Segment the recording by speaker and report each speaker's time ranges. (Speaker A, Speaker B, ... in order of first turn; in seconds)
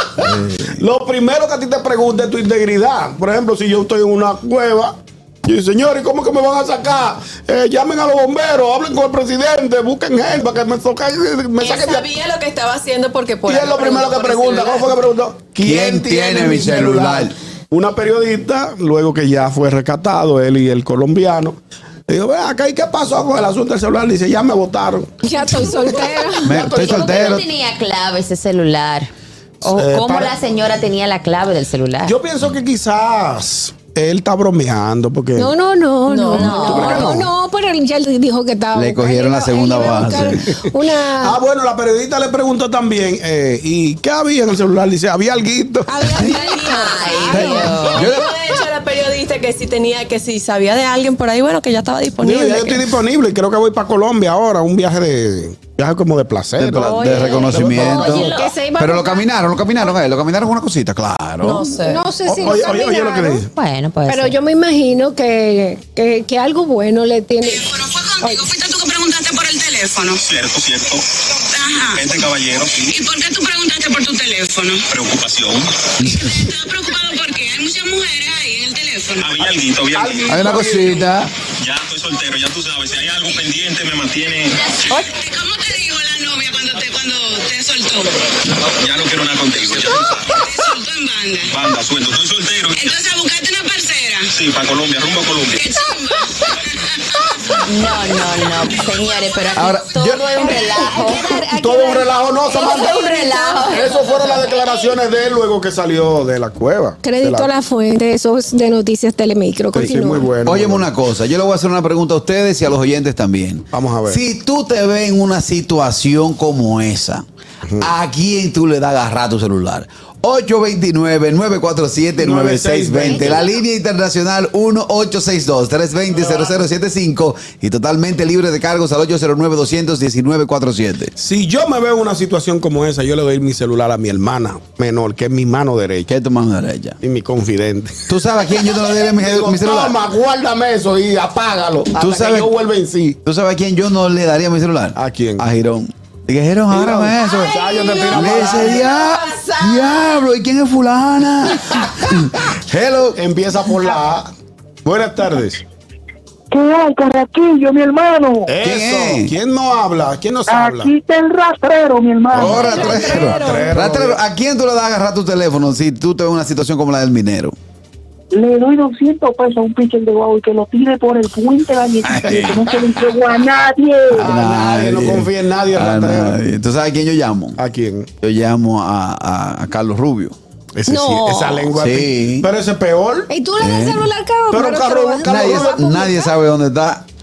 Speaker A: 0.2-12.1, 13.4-25.1, 29.6-30.4, 32.0-35.5, 36.7-37.3, 41.2-46.1, 52.2-58.3, 62.3-63.5, 79.9-81.1, 101.5-103.0, 103.7-107.5, 109.7-110.8, 113.7-114.2, 122.2-123.5, 131.2-136.1, 137.0-138.0, 139.1-143.2, 144.9-145.4, 146.7-148.9, 153.2-154.3, 154.8-155.6, 158.5-160.9, 162.4-164.2, 174.1-176.4, 177.6-178.1, 180.8-183.3, 184.5-185.8
Speaker B: 0.2-0.6, 15.6-17.3, 26.4-27.4, 38.7-40.4, 47.3-48.3, 56.6-61.7, 76.0-76.4, 80.3-81.3, 99.5-100.2, 110.4-117.2, 117.8-131.1, 136.1-137.0, 138.1-140.0, 142.0-142.5, 143.2-147.6, 148.1-153.2, 158.6-159.3, 162.3-167.5, 172.0-172.9, 174.1-177.6, 178.2-180.3, 181.7-182.5, 183.6-184.1, 185.2-187.0
Speaker C: 11.6-14.9, 36.1-37.0, 46.3-52.9, 61.4-62.0, 147.4-150.0, 162.7-163.6
Speaker D: 25.2-26.8, 35.4-41.4, 45.9-48.0, 57.2-59.2, 61.8-63.4, 64.1-67.6, 100.4-104.0, 107.0-110.3, 162.6-163.7, 180.9-181.7, 183.3-186.3
Speaker E: 26.5-29.1, 29.6-32.1, 36.3-37.1, 47.0-48.1, 56.9-58.3, 63.5-64.3, 97.5-101.3, 102.5-104.0
Speaker F: 67.4-70.2, 71.5-72.0, 72.9-74.8, 76.3-79.3, 84.7-88.2, 90.3-91.5, 92.8-94.3, 95.6-96.8
Speaker G: 70.2-71.0, 72.0-72.9, 74.9-75.7, 79.2-80.4, 81.6-84.6, 88.6-90.4, 91.5-92.8, 94.3-95.6
Speaker H: 156.5-158.5, 160.5-163.0, 168.3-174.3